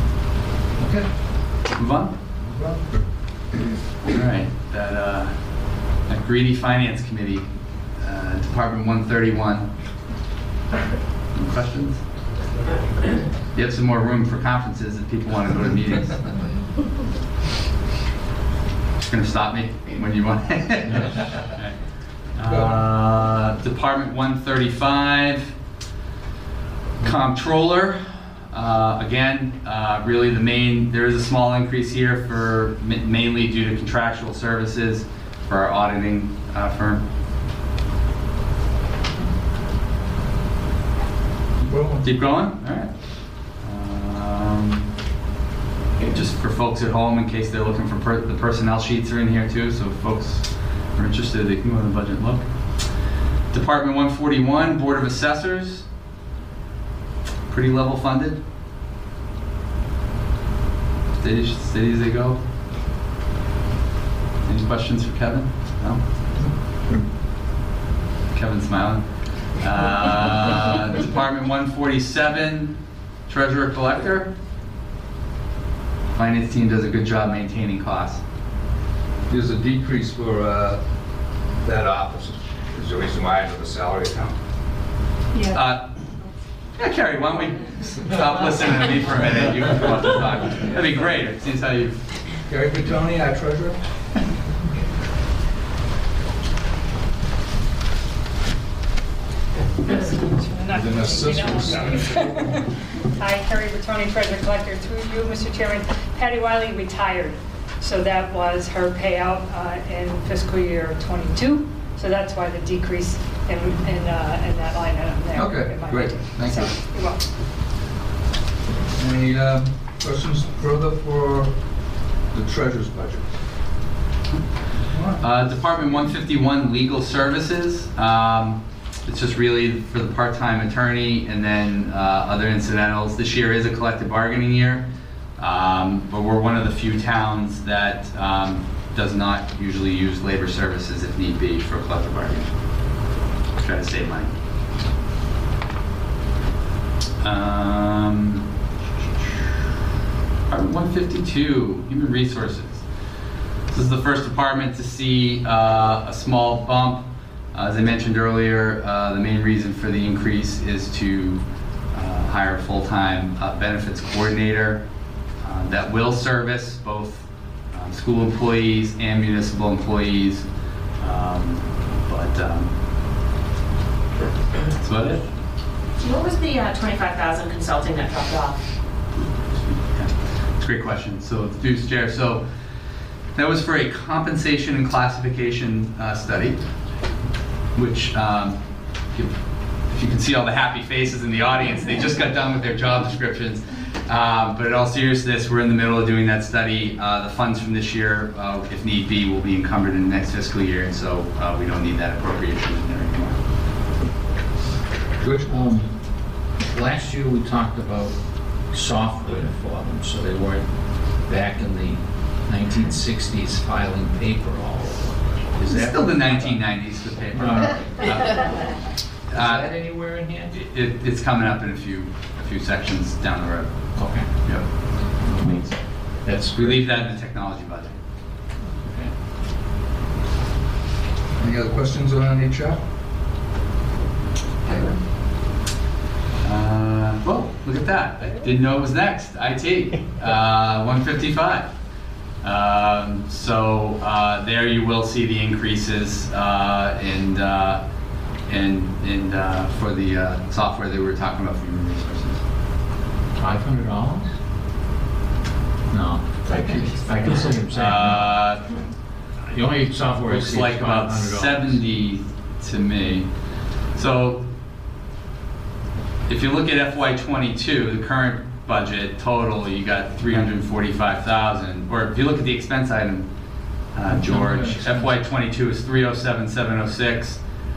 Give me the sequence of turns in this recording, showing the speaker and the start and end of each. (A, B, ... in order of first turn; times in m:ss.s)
0:00.8-0:01.1 A
0:01.7-0:02.1 B
0:02.4-0:02.9 A
0:04.1-0:05.4 B
0:06.0-0:07.5 B
0:08.0-0:09.7 B
0:11.3-0:12.0 B
0:13.5-0:16.2 B
0:19.0-0:21.8 B
0:20.9-0:21.2 C
0:22.3-0:25.5 B
0:27.0-0:37.0 B
0:41.6-0:42.0 A
0:42.0-0:44.8 B
0:46.1-0:52.9 B
0:53.5-0:55.9 B
0:57.5-0:58.4 B
1:01.2-1:02.4 B
1:04.4-1:06.0 B
1:08.3-1:12.8 B
1:13.3-1:14.3 B
1:16.1-1:18.2 B
1:19.3-1:20.8 A
1:21.6-1:24.4 A
1:25.3-1:25.6 D
1:25.5-1:26.0 B
1:26.8-1:32.0 B
1:32.4-1:33.8 A
1:39.9-1:57.2 D
1:40.7-1:42.5 A
1:55.3-1:56.8 A
1:59.0-2:03.4 A
2:04.9-2:05.2 A
2:05.2-2:14.8 B
2:15.4-2:22.5 B
2:23.6-2:24.3 B
2:27.2-2:28.4 B
2:29.2-2:29.6 B
2:30.5-2:32.8 B
2:33.7-2:41.4 B
2:41.9-2:44.8 B
2:45.4-2:50.4 B
2:51.0-2:52.7 B
2:54.8-2:55.2 B
2:56.0-2:58.6 E
2:59.7-3:02.4 B
3:03.3-3:06.6 B
3:07.7-3:08.6 B
3:09.1-3:23.4 B
3:25.2-3:25.9 C
3:26.6-3:36.6 C
3:35.7-3:38.5 B
3:37.3-3:38.5 C
3:39.3-3:39.7 B
3:39.3-3:40.6 C
3:40.5-3:44.6 B
3:44.0-3:44.3 C
3:45.2-3:46.8 C
3:46.5-3:48.0 B
3:48.8-3:49.1 C
3:51.4-3:52.8 A
3:56.4-4:01.7 B
4:02.4-4:07.8 B
4:08.5-4:12.4 B
4:13.4-4:14.3 C
4:15.9-4:18.3 C
4:16.5-4:17.0 A
4:17.6-4:18.7 B
4:19.5-4:21.8 C
4:20.2-4:23.3 B
4:23.9-4:24.4 B
4:26.3-4:33.3 B
4:33.9-4:37.4 B